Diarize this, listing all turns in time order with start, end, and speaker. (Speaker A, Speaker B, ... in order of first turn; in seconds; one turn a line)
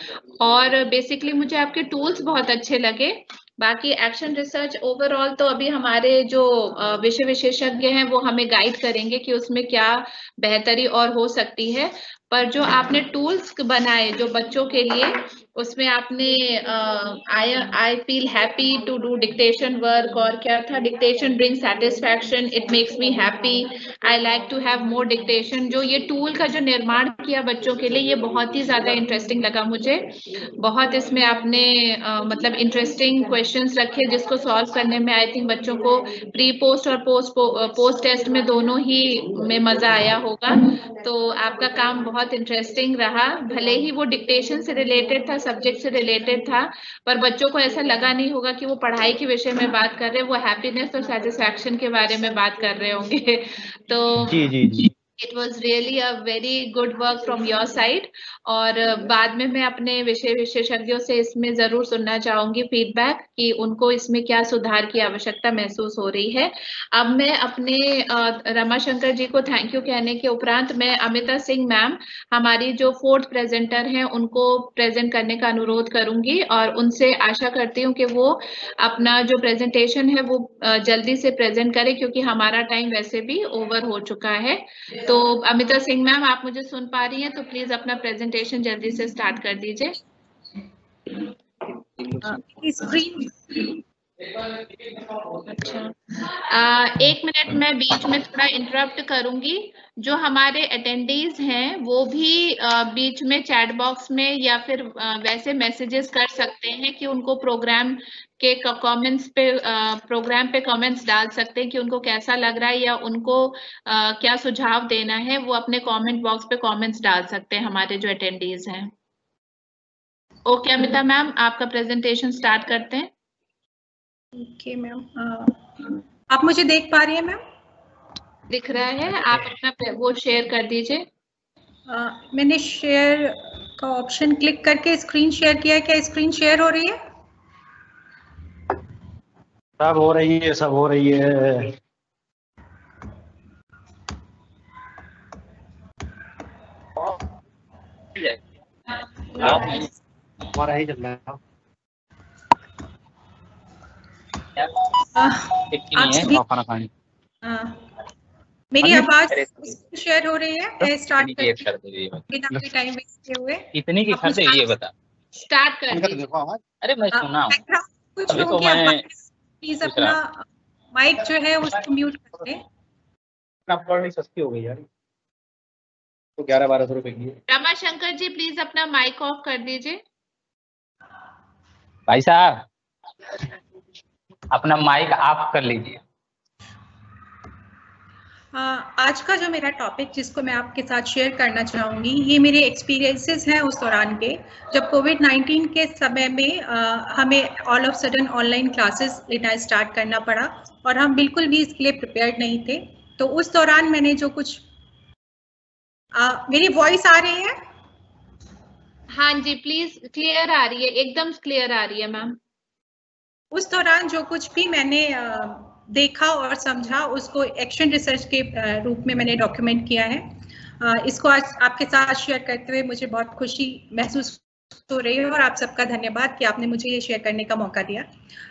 Speaker A: 0.4-54.4
Speaker B: 54.3-54.9
Speaker A: 55.2-90.0
Speaker C: 92.2-93.7
Speaker A: 95.5-95.9
Speaker A: 96.5-118.9
Speaker A: 120.5-123.1
Speaker C: 124.3-127.4
Speaker A: 128.5-131.1
Speaker C: 131.9-137.0
Speaker B: 139.8-141.7
Speaker D: 149.4-149.8
Speaker B: 149.4-149.7
Speaker B: 150.5-151.4
Speaker C: 155.2-156.4
Speaker D: 155.7-156.3
Speaker B: 156.3-156.9
Speaker C: 157.4-157.8
Speaker C: 158.7-161.7
Speaker D: 158.8-159.7
Speaker D: 161.2-162.2
Speaker C: 162.3-164.8
Speaker D: 163.7-164.9
Speaker A: 165.4-166.2
Speaker B: 165.9-166.6
Speaker D: 166.8-167.6
Speaker C: 167.1-172.6
Speaker D: 168.3-169.0
Speaker D: 169.8-170.2
Speaker B: 173.7-174.8
Speaker B: 176.4-177.4
Speaker A: 177.5-180.0
Speaker D: 182.1-182.7
Speaker D: 184.5-186.0
Speaker C: 188.5-204.6
Speaker C: 206.1-207.6
Speaker A: 209.1-212.4
Speaker C: 213.5-228.1